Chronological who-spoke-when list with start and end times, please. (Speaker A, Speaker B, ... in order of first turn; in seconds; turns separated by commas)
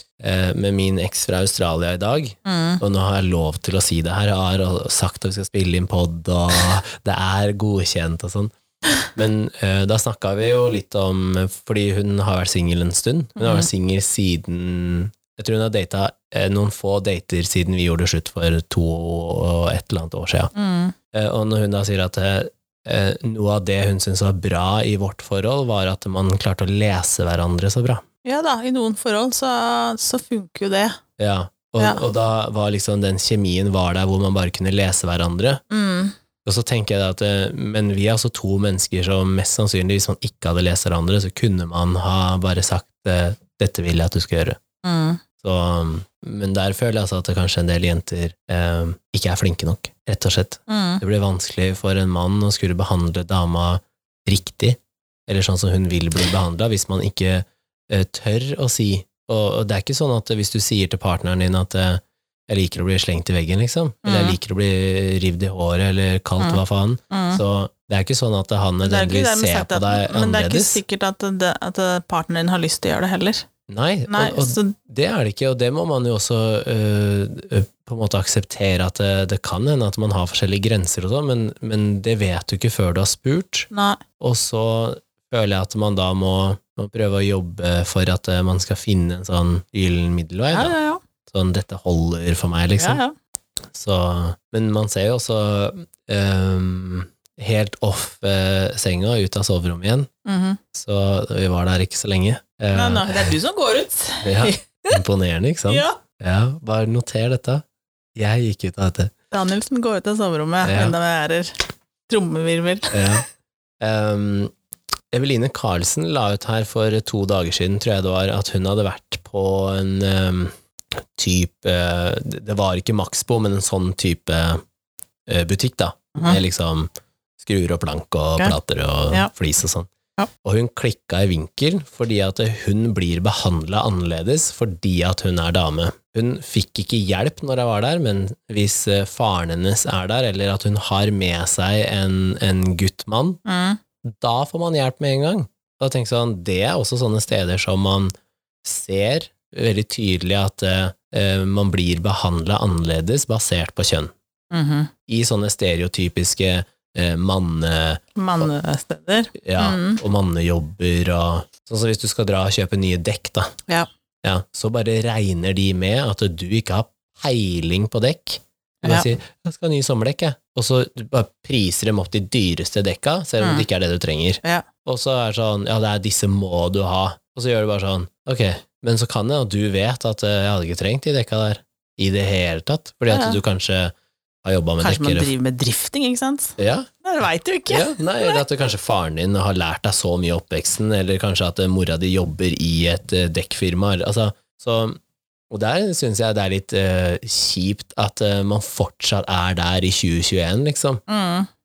Speaker A: 0.2-8.5, Speaker B: 2.4-2.8, Speaker A: 9.1-20.5, Speaker B: 13.4-13.7, Speaker B: 20.5-20.9, Speaker A: 21.1-28.0, Speaker B: 28.2-31.0, Speaker A: 31.2-35.6, Speaker B: 35.7-36.1, Speaker A: 36.4-44.6, Speaker B: 44.8-45.2, Speaker A: 45.4-70.8, Speaker B: 50.7-51.0, Speaker B: 64.0-64.4, Speaker B: 66.4-67.4, Speaker B: 68.8-73.5, Speaker A: 73.7-83.7, Speaker B: 74.1-74.8, Speaker B: 83.7-84.0, Speaker A: 84.2-90.7, Speaker B: 90.5-91.0, Speaker A: 91.3-93.0, Speaker B: 92.8-93.1, Speaker A: 93.7-100.1, Speaker B: 100.2-100.6, Speaker A: 100.7-103.3, Speaker B: 102.7-105.0, Speaker A: 104.2-107.6, Speaker B: 105.7-106.0, Speaker A: 108.1-109.1, Speaker B: 109.3-111.5, Speaker A: 110.6-111.0, Speaker B: 112.1-113.2, Speaker A: 112.9-113.2, Speaker A: 113.8-114.5, Speaker A: 115.1-124.6, Speaker A: 125.3-129.9, Speaker A: 130.4-143.4, Speaker B: 143.4-143.8, Speaker A: 144.1-148.1, Speaker A: 148.6-154.1, Speaker B: 154.5-154.9, Speaker A: 155.1-158.4, Speaker B: 158.2-160.0, Speaker A: 159.4-163.5, Speaker A: 164.2-185.3, Speaker B: 168.8-169.1, Speaker B: 173.4-173.7, Speaker B: 183.1-183.4, Speaker B: 184.8-188.4, Speaker A: 186.6-186.9, Speaker A: 187.7-195.0, Speaker A: 195.5-201.0, Speaker B: 201.1-201.5